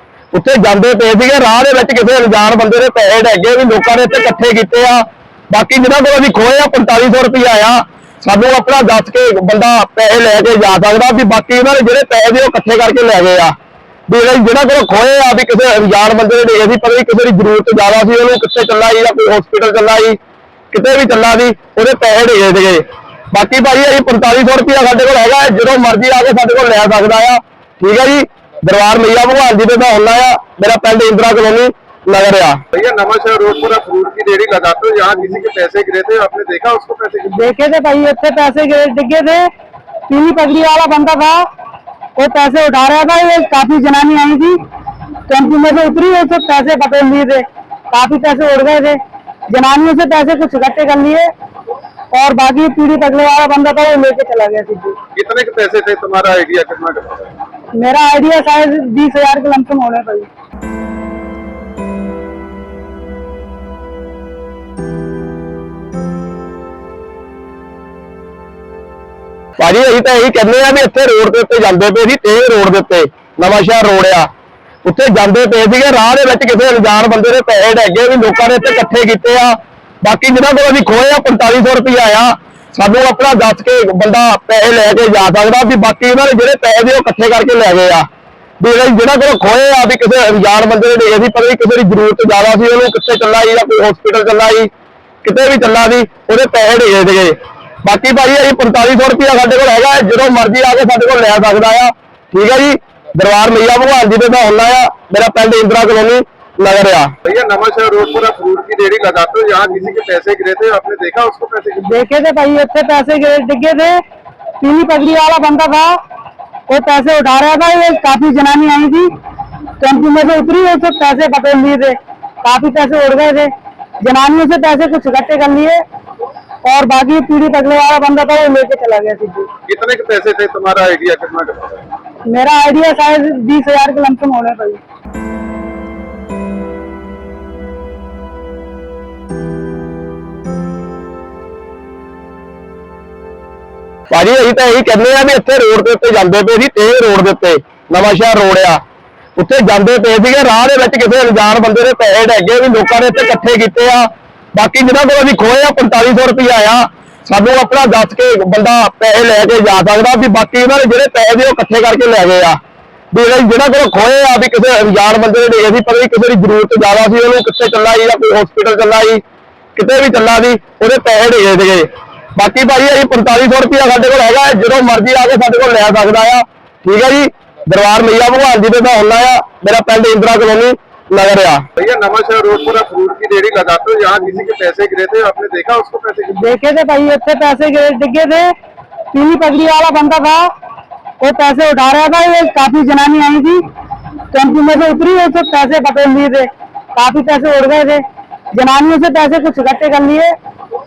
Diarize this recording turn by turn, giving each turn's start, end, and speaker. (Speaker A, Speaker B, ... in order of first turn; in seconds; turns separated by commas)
Speaker A: 0.3-13.5, Speaker A: 14.1-20.2, Speaker A: 20.7-32.6, Speaker B: 32.7-37.5, Speaker C: 37.3-39.5, Speaker C: 40.1-41.5, Speaker C: 42.2-44.6, Speaker C: 45.3-51.3, Speaker C: 52.1-55.0, Speaker B: 55.2-57.3, Speaker C: 57.7-60.3, Speaker A: 69.6-74.3, Speaker A: 74.8-88.1, Speaker A: 88.6-94.7, Speaker A: 95.2-107.1, Speaker B: 107.2-111.9, Speaker C: 111.8-114.0, Speaker C: 114.6-116.0, Speaker C: 116.7-119.1, Speaker C: 119.8-125.8, Speaker C: 126.6-129.5, Speaker B: 129.7-131.8, Speaker C: 132.2-134.8, Speaker A: 144.1-148.8, Speaker A: 149.4-162.6, Speaker A: 163.1-169.2, Speaker A: 169.8-181.6, Speaker B: 181.8-186.5, Speaker C: 186.3-188.5, Speaker C: 189.1-190.5, Speaker C: 191.2-193.6, Speaker C: 194.3-200.4